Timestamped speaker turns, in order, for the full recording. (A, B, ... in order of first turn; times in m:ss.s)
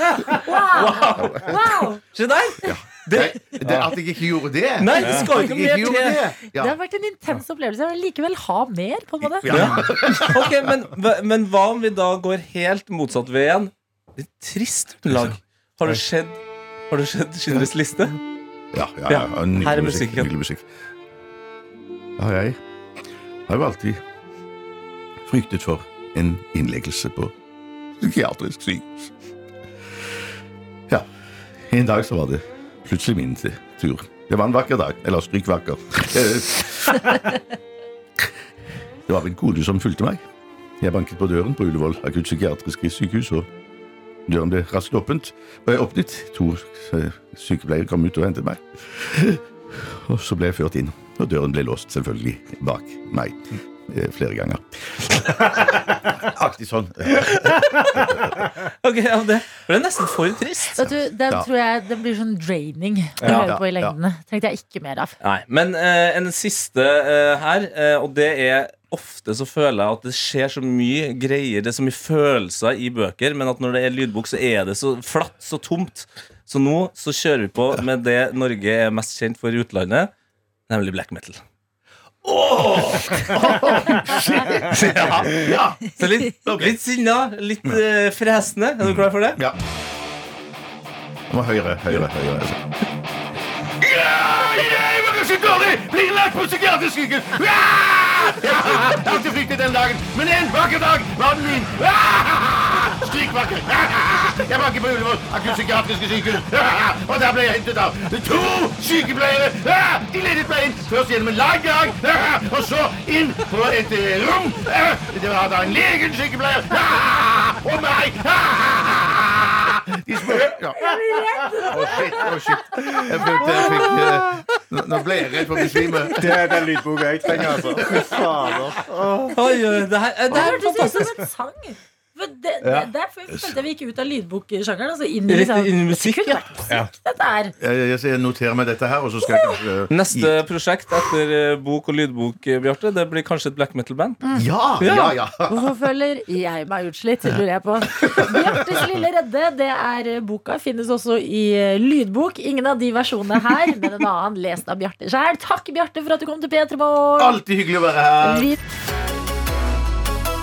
0:00.4-0:02.0 A
0:00.7-0:03.9 B
0:02.6-0:06.8 C
0:04.8-0:06.2 B
0:05.0-0:05.2 D
0:06.5-0:09.5 A
0:09.2-0:10.6 C
0:09.4-0:16.4 B
0:15.1-0:15.4 C
0:16.9-0:18.2 B
0:18.7-0:20.6 C
0:19.1-0:20.3 B
0:22.2-0:22.6 C
0:23.5-0:24.0 C
0:25.3-0:27.3 C
0:28.0-0:29.1 C
0:31.7-0:37.4 C
0:39.0-0:40.2 C
0:40.8-0:43.5 C
0:44.3-0:58.3 C
0:58.8-1:00.8 B
1:00.8-1:05.2 A
1:00.8-1:01.5 C
1:03.2-1:04.0 C
1:05.2-1:20.1 B
1:20.7-1:21.4 B
1:22.2-1:26.7 C
1:24.7-1:29.4 B
1:28.8-1:29.6 C
1:31.3-1:32.6 C
1:33.8-2:00.8 C
2:00.8-2:02.3 A
2:01.6-2:06.3 C
2:03.4-2:03.9 A
2:06.2-2:09.4 D
2:07.8-2:08.5 A
2:09.4-2:11.1 B
2:10.3-2:17.5 A
2:12.6-2:12.9 D
2:15.3-2:16.5 B
2:17.6-2:20.4 C
2:19.3-2:19.6 A
2:19.9-2:24.2 B
2:24.3-2:25.5 C
2:24.8-2:25.1 B
2:25.5-2:37.4 A
2:28.0-2:28.3 C
2:37.2-2:38.5 C
2:38.2-2:38.6 A